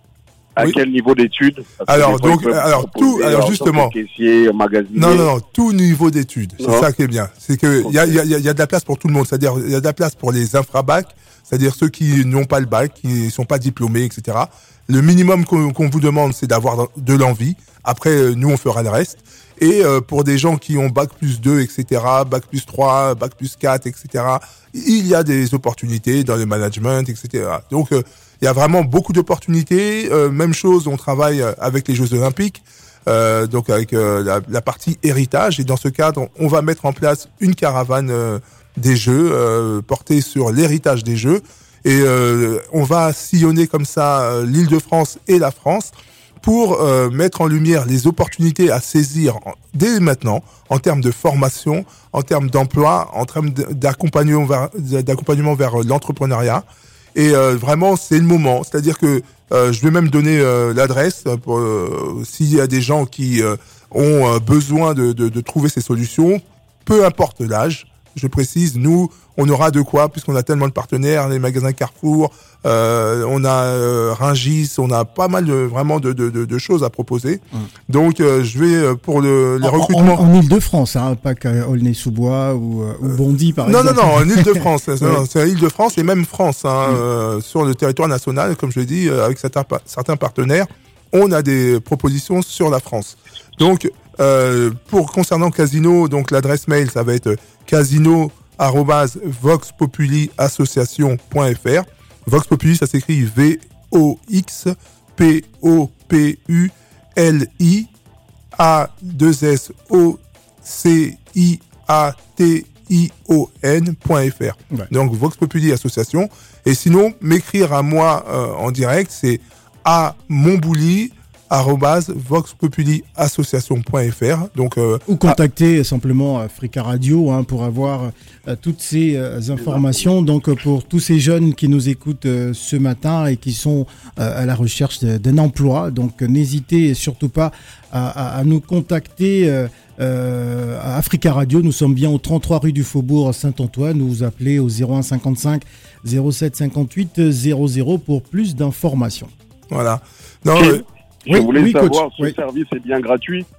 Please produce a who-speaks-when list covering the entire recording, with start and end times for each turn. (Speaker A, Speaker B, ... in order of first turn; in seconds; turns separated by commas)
Speaker A: 0.6-5.3, Speaker B: 1.9-3.9, Speaker B: 4.9-80.2, Speaker A: 6.6-6.9, Speaker A: 7.8-8.2, Speaker C: 79.6-85.2, Speaker B: 83.6-107.9, Speaker B: 108.5-125.4, Speaker C: 125.1-149.3, Speaker B: 149.7-150.8, Speaker A: 150.6-153.4, Speaker C: 151.3-152.3